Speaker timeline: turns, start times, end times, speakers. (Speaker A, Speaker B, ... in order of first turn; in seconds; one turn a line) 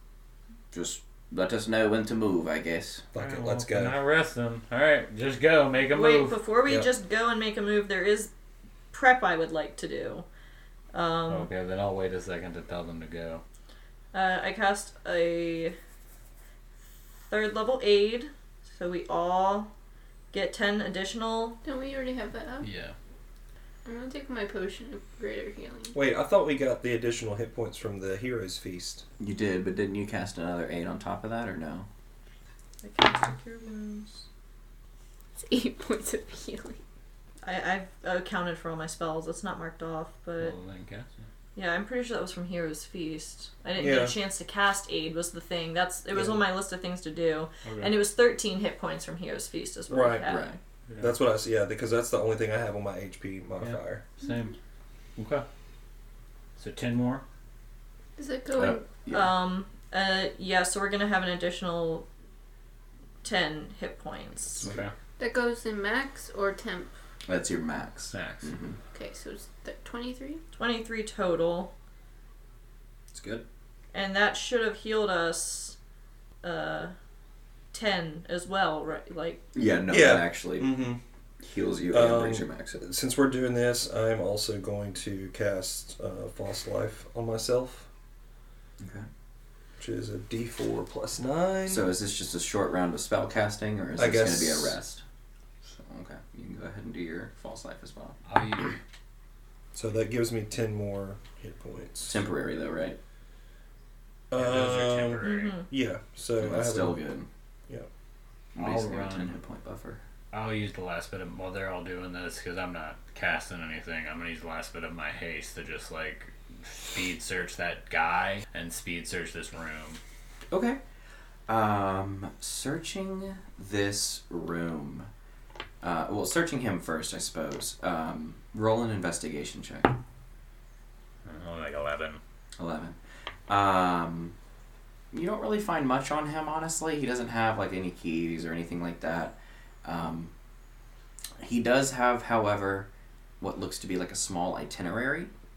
Speaker A: 0.7-3.0
Speaker B: 3.1-4.0
Speaker C: 3.2-6.4
Speaker D: 5.9-8.3
Speaker D: 8.9-10.2
Speaker D: 10.9-11.5
Speaker C: 11.3-13.4
Speaker D: 14.1-15.8
Speaker D: 17.3-19.7
Speaker D: 20.3-21.6
Speaker E: 21.6-22.7
Speaker C: 22.6-22.9
Speaker E: 23.9-26.0
Speaker B: 25.9-29.0
Speaker A: 29.2-31.9
Speaker D: 32.8-34.2
Speaker E: 35.5-36.8
Speaker D: 37.4-40.5
Speaker C: 40.4-41.2
Speaker D: 41.5-50.6
Speaker B: 43.8-44.2
Speaker B: 46.1-46.4
Speaker C: 47.6-47.9
Speaker B: 49.9-50.3
Speaker A: 50.3-50.6
Speaker C: 50.9-51.1
Speaker B: 51.0-54.0
Speaker C: 53.6-54.5
Speaker C: 55.2-55.5
Speaker C: 56.6-57.2
Speaker E: 58.2-58.9
Speaker A: 58.6-59.3
Speaker D: 59.1-62.1
Speaker D: 63.2-64.7
Speaker A: 64.6-64.9
Speaker C: 64.6-64.9
Speaker E: 65.2-66.9
Speaker A: 67.3-68.8
Speaker C: 68.1-68.5
Speaker E: 68.9-70.4
Speaker D: 70.6-71.7
Speaker A: 73.1-73.4
Speaker D: 73.9-75.8
Speaker D: 76.4-76.9
Speaker D: 77.7-79.4
Speaker A: 79.5-80.9
Speaker B: 79.9-81.0
Speaker A: 81.4-82.8
Speaker B: 81.9-87.9
Speaker A: 88.8-89.1
Speaker B: 89.8-91.9
Speaker A: 91.7-95.0
Speaker B: 94.0-94.8
Speaker A: 95.7-98.2
Speaker C: 98.3-98.8
Speaker B: 99.7-102.2
Speaker A: 102.1-103.0
Speaker B: 104.3-107.0
Speaker C: 104.3-105.5
Speaker D: 105.2-105.7
Speaker A: 106.4-107.3
Speaker A: 108.5-110.0
Speaker C: 108.6-109.3
Speaker C: 110.3-120.0
Speaker A: 120.5-120.8
Speaker A: 121.5-125.1
Speaker A: 125.8-129.9
Speaker C: 131.3-132.2
Speaker A: 132.6-133.0
Speaker A: 133.5-134.3
Speaker A: 135.1-140.3
Speaker A: 141.4-142.9
Speaker A: 143.4-145.3